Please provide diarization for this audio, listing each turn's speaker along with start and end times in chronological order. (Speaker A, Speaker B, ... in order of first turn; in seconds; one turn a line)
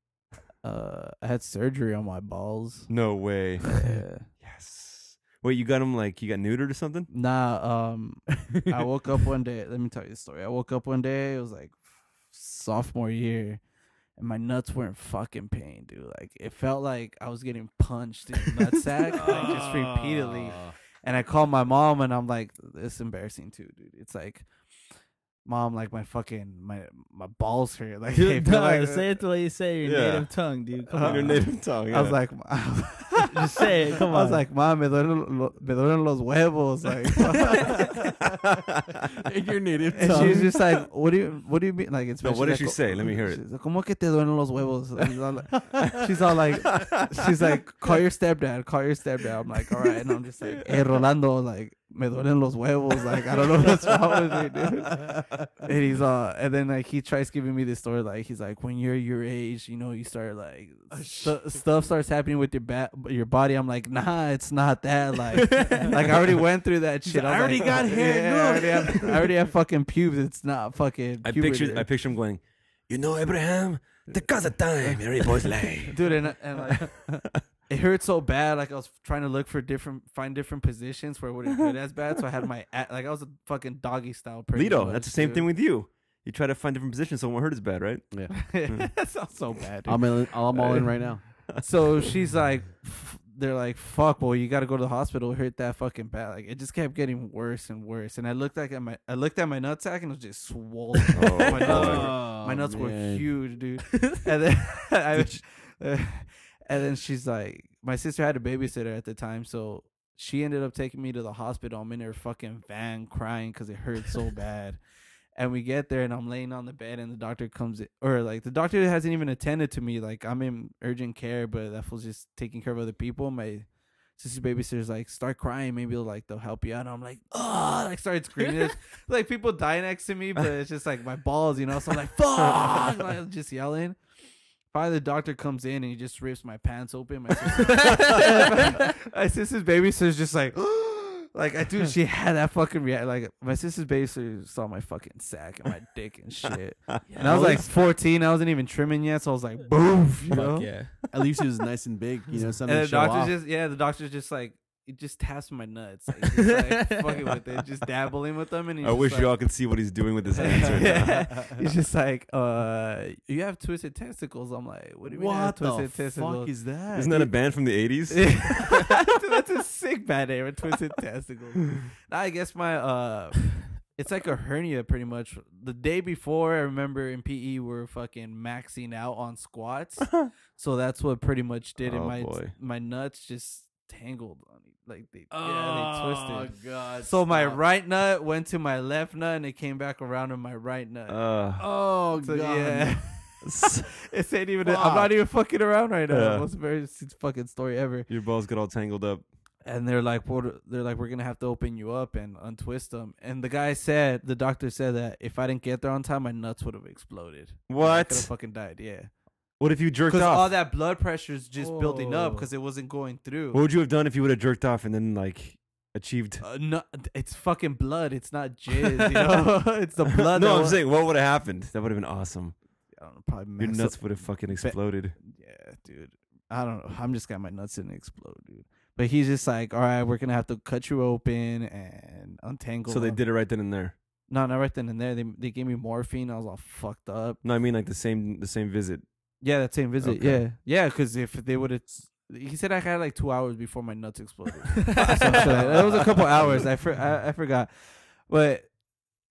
Speaker A: 0.6-2.9
Speaker B: 2.9-7.1
Speaker A: 3.6-4.3
Speaker A: 7.1-13.6
Speaker A: 14.2-24.5
Speaker C: 19.1-20.7
Speaker A: 25.4-29.2
Speaker D: 28.1-31.4
Speaker B: 29.9-30.3
Speaker A: 30.9-38.1
Speaker B: 31.0-32.2
Speaker D: 33.4-34.4
Speaker C: 37.6-38.0
Speaker B: 37.8-39.1
Speaker C: 39.2-40.5
Speaker A: 40.0-71.9
Speaker B: 40.1-40.5
Speaker B: 42.2-43.4
Speaker B: 46.5-47.3
Speaker C: 54.9-55.5
Speaker C: 60.9-61.6
Speaker C: 67.0-69.3
Speaker B: 71.2-76.0
Speaker C: 74.8-75.7
Speaker A: 75.9-77.1
Speaker A: 77.7-85.5
Speaker B: 84.5-88.1
Speaker C: 88.1-88.4
Speaker A: 88.3-91.0
Speaker B: 88.6-88.9
Speaker C: 89.9-91.2
Speaker A: 91.5-114.8
Speaker B: 101.1-102.1
Speaker C: 101.5-103.3
Speaker A: 115.3-134.0
Speaker A: 134.7-150.7
Speaker D: 137.8-138.7
Speaker D: 147.1-147.4
Speaker B: 147.1-147.7
Speaker D: 150.3-150.9
Speaker C: 151.1-153.4
Speaker A: 152.7-159.3
Speaker D: 156.7-156.9
Speaker B: 158.8-161.2
Speaker A: 160.3-166.5
Speaker C: 160.4-161.5
Speaker C: 165.1-167.3
Speaker B: 166.9-168.8
Speaker A: 168.1-191.3
Speaker B: 181.8-182.5
Speaker C: 185.3-187.6
Speaker B: 191.1-191.7
Speaker C: 191.6-193.1
Speaker A: 192.2-198.1
Speaker B: 193.4-193.9
Speaker C: 194.6-195.1
Speaker B: 196.1-196.5
Speaker B: 198.1-199.2
Speaker A: 199.6-209.1
Speaker B: 207.7-208.3
Speaker B: 209.6-210.5
Speaker A: 210.1-213.6
Speaker D: 211.6-212.5
Speaker B: 213.5-216.4
Speaker A: 216.4-220.8
Speaker B: 220.2-222.6
Speaker A: 223.0-233.2
Speaker B: 223.6-225.2
Speaker B: 232.9-233.9
Speaker A: 234.3-237.4
Speaker B: 237.4-239.1
Speaker A: 239.4-248.7
Speaker B: 240.0-240.4
Speaker D: 244.8-245.4
Speaker B: 244.9-246.7